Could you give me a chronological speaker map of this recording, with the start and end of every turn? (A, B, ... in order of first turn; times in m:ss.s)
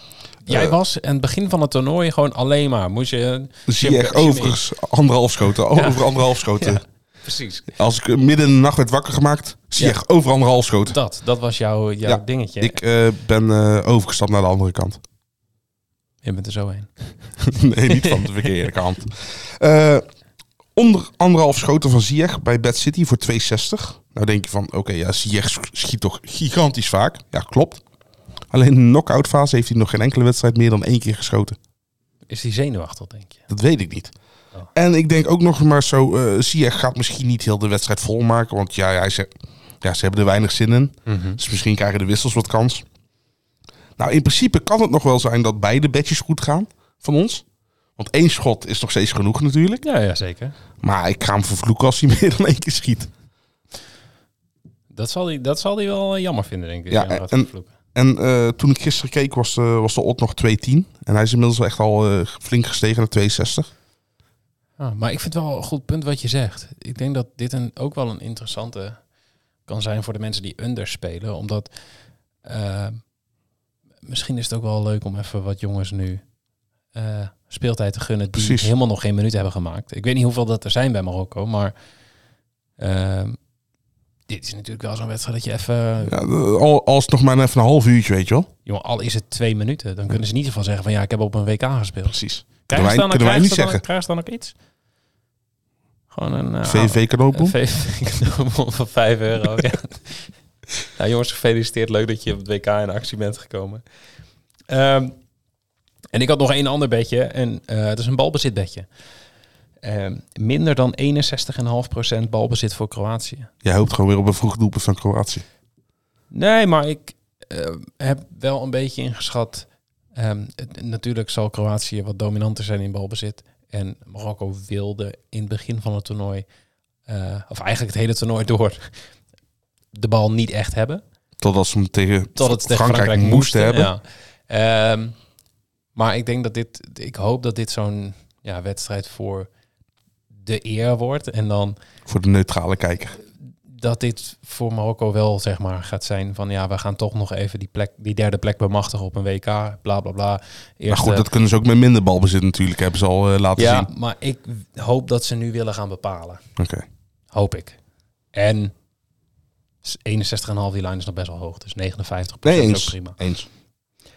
0:00.4-0:04.6 A
0:00.5-0:00.8 B
0:03.7-0:06.8 B
0:05.7-0:07.7 A
0:07.7-0:11.0 B
0:10.9-0:12.8 A
0:12.0-0:15.0 B
0:16.2-0:17.3 A
0:17.4-0:20.0 B
0:17.9-0:18.3 A
0:20.8-0:27.8 B
0:28.5-0:31.6 B
0:32.3-0:33.4 A
0:33.5-0:34.1 B
0:34.8-0:39.3 B
0:39.8-0:42.8 B
0:41.1-0:41.4 A
0:44.0-0:47.4 B
0:48.0-0:49.8 B
0:49.8-0:50.6 A
0:50.8-0:53.1 B
0:54.9-0:57.7 A
0:56.9-1:03.7 B
1:04.8-1:09.0 A
1:09.7-1:11.7 A
1:12.4-1:13.0 A
1:14.0-1:16.2 A
1:16.9-1:21.7 A
1:18.4-1:18.7 B
1:22.8-1:23.4 A
1:24.3-1:26.1 A
1:26.1-1:28.5 B
1:28.7-1:34.6 A
1:32.1-1:33.8 B
1:36.1-1:40.3 A
1:36.6-1:37.6 B
1:40.8-1:43.8 A
1:44.7-1:45.2 A
1:46.1-1:48.9 A
1:49.8-1:53.5 A
1:53.6-1:55.4 B
1:56.3-2:06.4 A
2:07.1-2:08.9 A
2:09.9-2:11.0 A
2:11.4-2:13.9 B
2:12.4-2:15.2 A
2:16.0-2:19.5 A
2:20.4-2:21.8 A
2:22.1-2:23.2 B
2:23.7-2:31.3 A
2:30.9-2:33.9 B
2:33.6-2:36.4 A
2:36.6-2:36.8 B
2:37.3-2:37.8 A
2:38.3-2:38.7 A
2:39.8-2:43.2 A
2:42.4-2:43.5 B